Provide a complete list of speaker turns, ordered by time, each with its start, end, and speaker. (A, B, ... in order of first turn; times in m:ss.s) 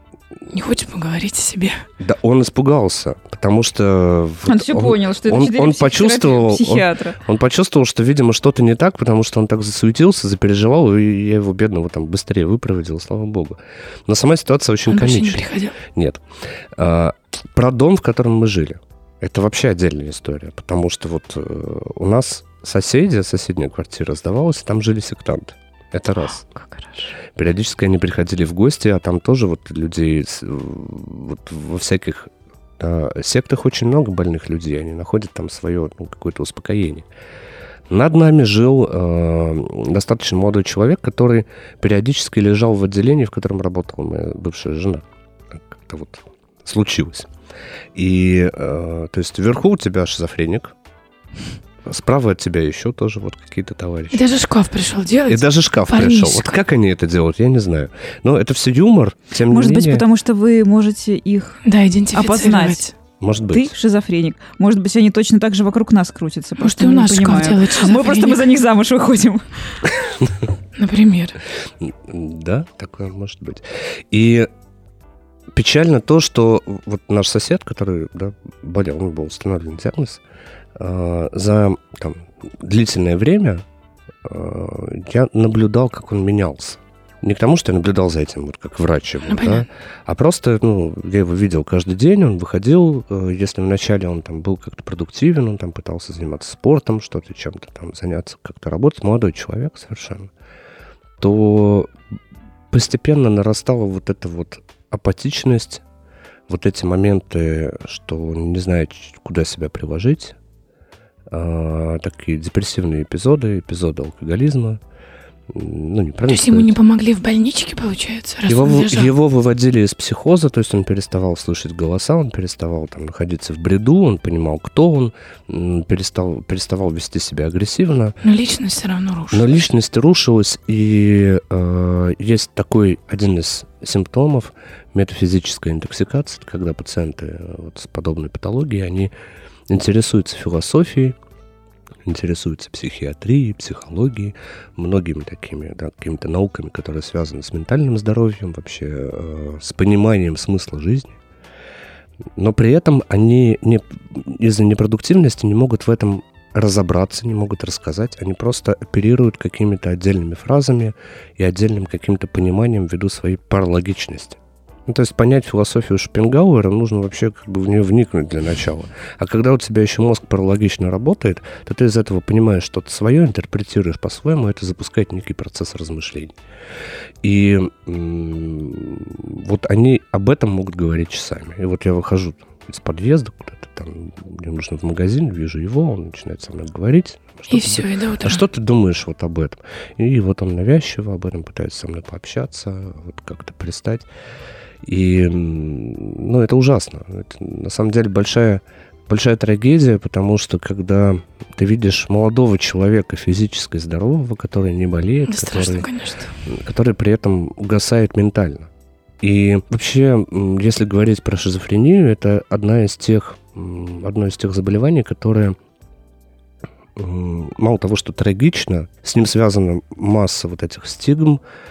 0:00.5-0:01.8 A
0:02.0-0:16.2 B
0:04.4-0:07.2 C
0:14.9-0:15.8 A
0:16.7-0:26.4 B
0:26.6-0:27.1 C
0:27.4-0:37.1 B
0:37.9-0:47.3 B
0:48.0-0:50.8 B
0:51.8-0:54.2 B
0:54.1-0:56.5 A
0:55.3-1:00.0 B
0:59.5-1:01.6 C
1:01.6-1:02.9 A
1:02.1-1:02.9 C
1:03.2-1:03.7 B
1:03.5-1:09.9 C
1:06.6-1:08.4 A
1:10.8-1:11.4 A
1:11.8-1:14.5 B
1:15.5-1:20.2 B
1:20.8-1:23.6 B
1:24.2-1:40.3 B
1:29.2-1:29.7 A
1:41.2-1:41.9 B
1:42.7-1:45.8 B
1:46.5-1:50.4 B
1:51.3-1:54.8 B
1:55.5-1:56.8 B
1:56.3-1:59.1 A
1:58.5-2:08.2 B
2:08.2-2:09.5 A
2:09.3-2:19.1 B
2:19.7-2:21.2 B
2:22.1-2:31.2 B
2:32.4-2:56.4 B
2:57.2-3:14.1 B
3:07.5-3:08.4 A
3:14.8-3:25.9 B
3:25.3-3:26.4 A
3:26.4-3:28.7 B
3:29.2-3:35.6 B
3:37.0-3:41.4 B